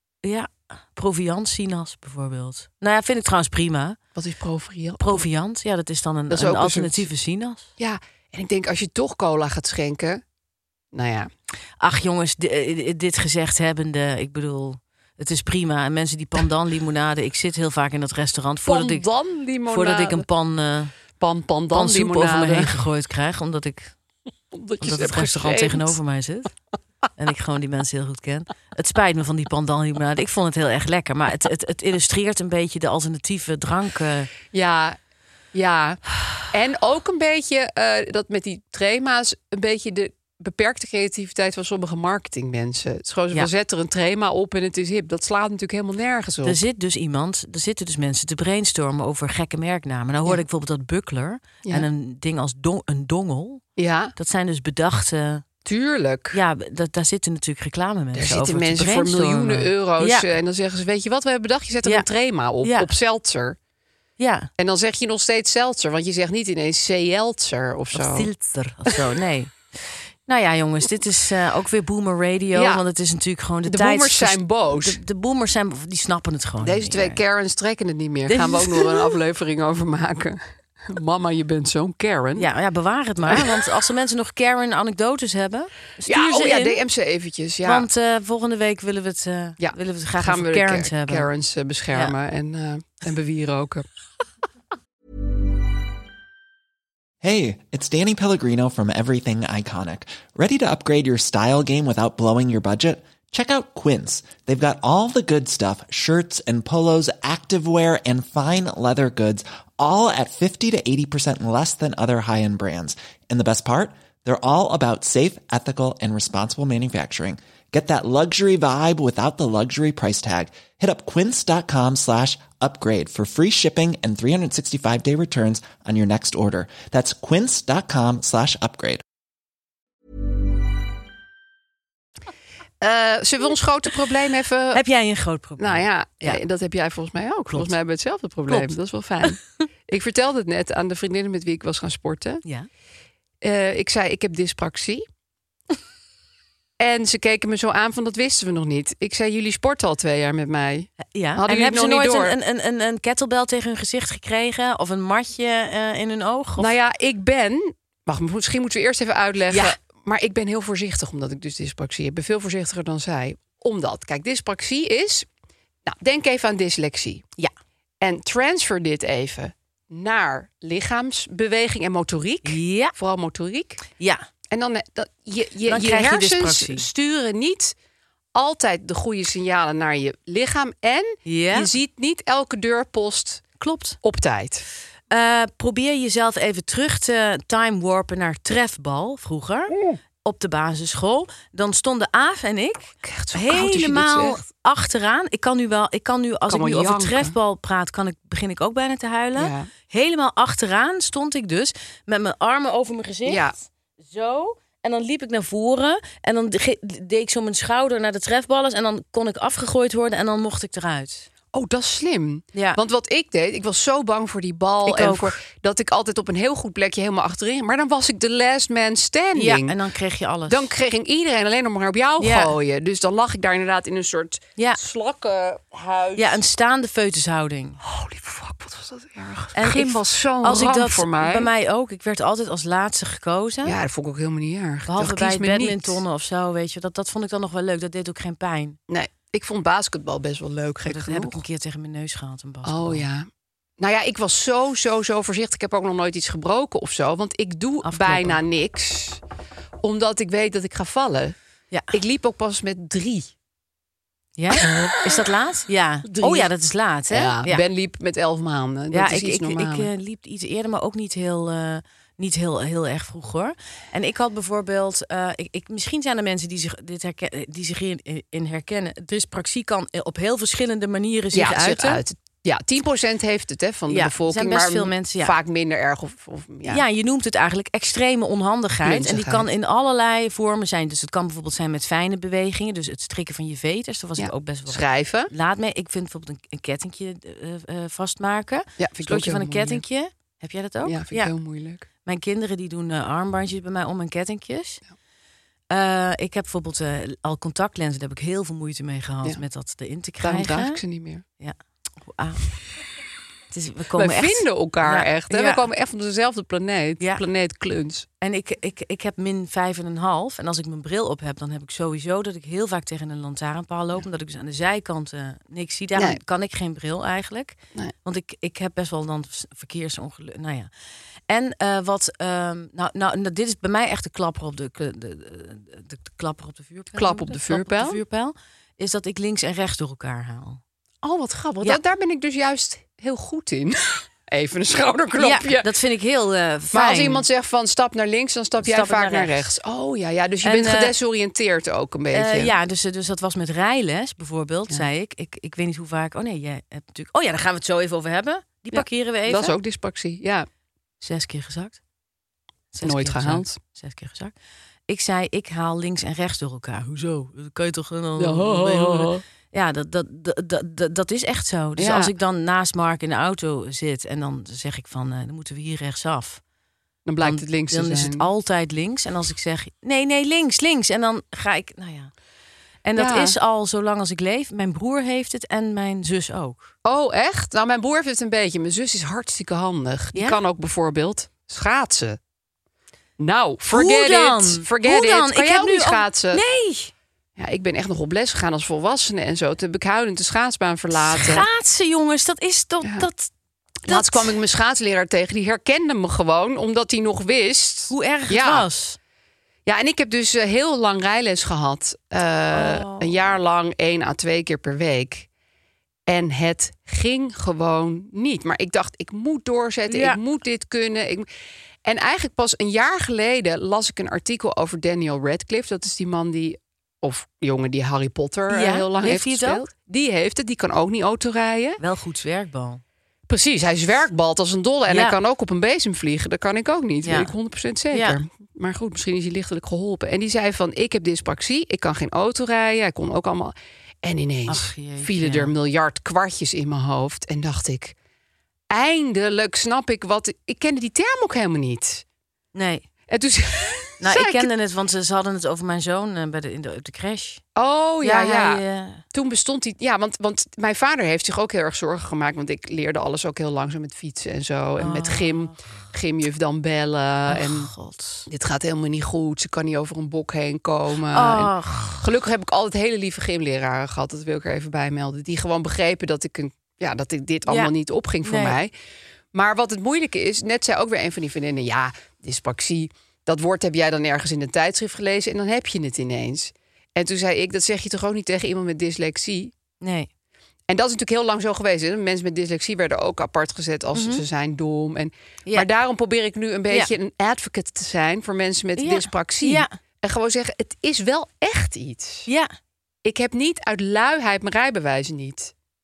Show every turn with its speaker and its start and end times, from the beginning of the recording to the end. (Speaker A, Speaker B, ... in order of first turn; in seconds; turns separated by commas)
Speaker A: 0.2-4.0, Speaker B: 4.1-5.2, Speaker A: 5.0-7.7, Speaker B: 6.3-7.0, Speaker B: 7.8-10.2, Speaker B: 10.9-11.3, Speaker A: 11.8-19.1, Speaker B: 18.6-20.2, Speaker A: 19.7-20.9, Speaker B: 21.2-22.7, Speaker A: 21.7-23.9, Speaker B: 24.5-26.0, Speaker A: 24.8-26.5, Speaker A: 27.2-34.3, Speaker B: 34.5-35.0, Speaker B: 35.5-46.6, Speaker A: 46.4-53.6, Speaker B: 53.8-54.1, Speaker A: 54.1-55.5, Speaker B: 55.6-56.4, Speaker A: 56.3-60.3, Speaker B: 58.1-63.6, Speaker A: 62.6-62.9, Speaker A: 64.2-64.5, Speaker B: 64.6-68.3, Speaker A: 67.9-69.6, Speaker A: 70.3-77.2, Speaker B: 72.5-72.8, Speaker B: 73.7-75.0, Speaker B: 76.6-82.5, Speaker A: 78.3-79.1, Speaker A: 82.4-86.8, Speaker B: 86.1-87.9, Speaker A: 87.6-91.3, Speaker B: 89.6-93.9, Speaker C: 97.2-129.0, Speaker B: 132.8-134.8, Speaker A: 134.7-136.4, Speaker B: 135.6-142.4, Speaker A: 137.5-137.8, Speaker B: 143.4-145.1, Speaker B: 146.8-152.3, Speaker A: 151.0-156.7, Speaker B: 156.6-165.3, Speaker A: 159.5-159.8, Speaker B: 165.9-167.2, Speaker B: 168.0-173.8, Speaker A: 172.4-172.9, Speaker A: 173.9-174.3, Speaker B: 174.5-177.8, Speaker A: 175.7-176.9, Speaker B: 178.3-183.5, Speaker A: 181.2-181.7, Speaker A: 183.6-184.0, Speaker B: 184.0-184.6, Speaker A: 185.1-189.7, Speaker A: 190.2-211.3, Speaker B: 193.0-194.4, Speaker B: 196.5-197.3, Speaker B: 199.4-199.7, Speaker B: 203.3-203.6, Speaker B: 211.5-219.8, Speaker A: 212.5-212.8, Speaker A: 214.9-215.3, Speaker A: 219.3-220.7, Speaker B: 220.5-226.4, Speaker A: 222.2-222.5, Speaker A: 226.2-227.8, Speaker B: 227.8-231.5, Speaker A: 229.6-233.8, Speaker B: 233.6-236.0, Speaker A: 234.9-238.8, Speaker B: 238.9-241.4, Speaker A: 240.9-243.1, Speaker B: 242.6-243.3, Speaker B: 243.8-249.2, Speaker A: 247.8-248.4, Speaker B: 249.8-251.4, Speaker B: 251.9-253.3, Speaker A: 254.4-257.6, Speaker B: 254.6-255.1, Speaker B: 256.1-256.5, Speaker B: 257.1-259.9, Speaker A: 258.9-272.0, Speaker B: 271.3-276.8, Speaker A: 273.9-275.4, Speaker A: 276.7-291.3, Speaker B: 278.8-279.5, Speaker B: 284.2-285.3, Speaker B: 288.8-289.8, Speaker B: 290.9-291.9, Speaker A: 292.0-294.8, Speaker A: 295.7-300.8, Speaker B: 300.2-301.2, Speaker A: 301.4-302.4, Speaker A: 303.5-305.6, Speaker B: 303.9-308.1, Speaker A: 308.2-320.7, Speaker A: 321.3-330.6, Speaker B: 326.9-328.0, Speaker B: 331.0-335.7, Speaker A: 335.2-337.2, Speaker B: 336.7-342.5, Speaker A: 338.6-339.5, Speaker A: 340.4-340.9, Speaker A: 342.1-349.6, Speaker B: 348.7-350.5, Speaker A: 351.0-351.8, Speaker A: 352.7-354.3, Speaker B: 352.8-353.6, Speaker A: 354.9-366.4, Speaker B: 358.2-359.2, Speaker B: 361.8-362.1, Speaker B: 367.1-368.3, Speaker A: 367.2-372.1, Speaker A: 372.8-376.7, Speaker B: 373.0-373.4, Speaker B: 376.9-382.2, Speaker B: 383.2-386.4, Speaker A: 383.7-386.9, Speaker B: 387.4-391.5, Speaker A: 390.9-393.3, Speaker A: 393.9-394.3, Speaker B: 393.9-398.6, Speaker A: 397.9-399.0, Speaker B: 399.6-405.3, Speaker A: 402.5-403.4, Speaker B: 406.1-411.3, Speaker A: 409.9-410.2, Speaker B: 411.9-421.8, Speaker A: 418.5-419.6, Speaker A: 421.8-422.8, Speaker B: 423.3-437.9, Speaker A: 424.9-425.2, Speaker A: 427.0-427.3, Speaker A: 427.9-428.2, Speaker A: 434.5-435.5, Speaker B: 438.7-442.0, Speaker A: 442.5-442.9, Speaker B: 443.1-444.5, Speaker A: 444.0-447.4, Speaker B: 447.6-448.6, Speaker A: 448.0-449.0, Speaker B: 449.1-457.7, Speaker A: 454.8-455.8, Speaker A: 457.3-458.3, Speaker B: 458.3-468.7, Speaker A: 461.1-462.0, Speaker A: 468.2-468.6, Speaker B: 469.3-479.5, Speaker A: 479.8-480.1, Speaker B: 480.7-492.3, Speaker A: 483.9-484.2, Speaker A: 488.8-489.8, Speaker A: 492.3-492.5, Speaker B: 493.0-495.5